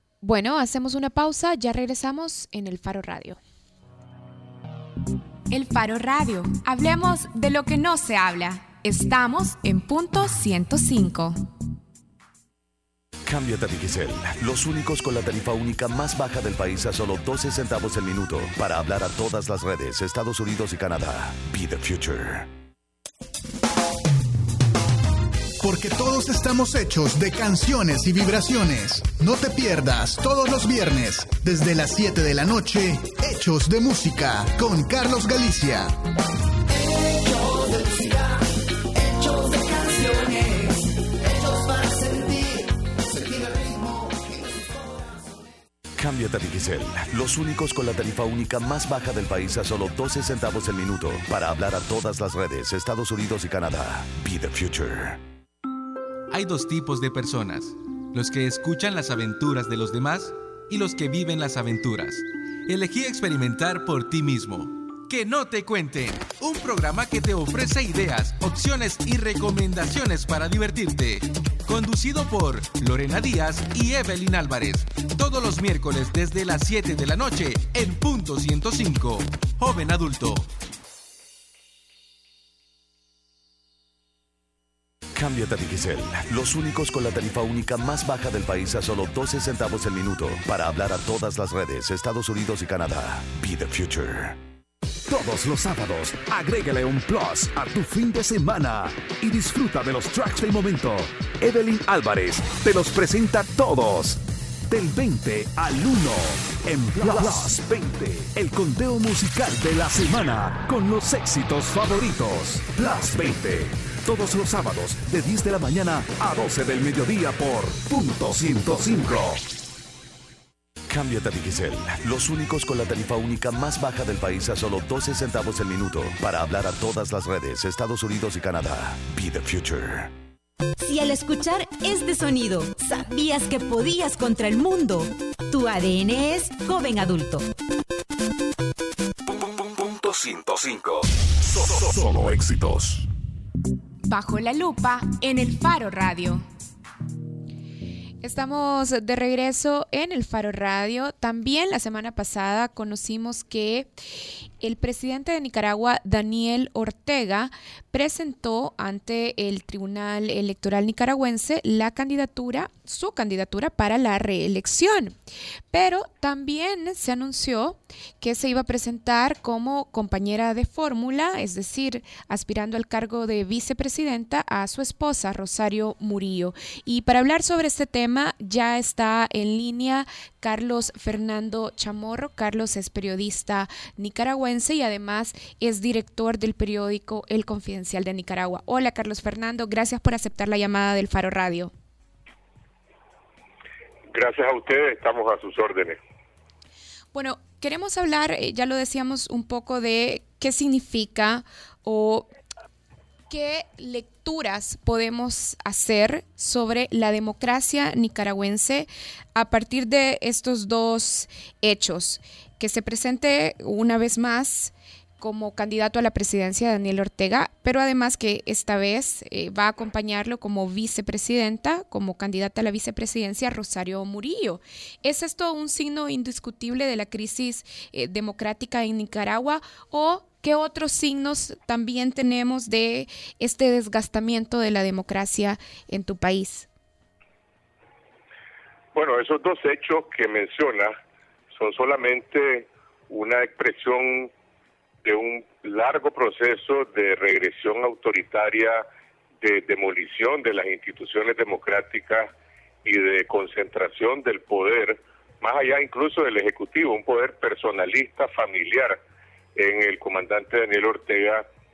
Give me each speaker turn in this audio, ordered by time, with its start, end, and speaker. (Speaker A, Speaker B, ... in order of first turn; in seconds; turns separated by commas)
Speaker A: 0.2-3.4, Speaker A: 5.5-11.4, Speaker B: 13.3-22.5, Speaker C: 25.6-36.0, Speaker C: 36.7-45.5, Speaker B: 46.0-55.2, Speaker D: 56.3-80.5, Speaker B: 85.1-94.4, Speaker E: 95.1-119.4, Speaker B: 120.9-130.1, Speaker F: 130.8-137.5, Speaker E: 139.3-143.1, Speaker A: 144.1-146.4, Speaker A: 148.2-153.9, Speaker A: 154.6-165.2, Speaker A: 165.7-191.7, Speaker G: 194.1-196.0, Speaker A: 197.1-202.3, Speaker A: 203.3-236.7, Speaker G: 238.9-240.9, Speaker G: 241.5-244.3, Speaker G: 245.0-248.8, Speaker G: 249.4-252.3, Speaker G: 252.8-259.0, Speaker G: 259.6-261.4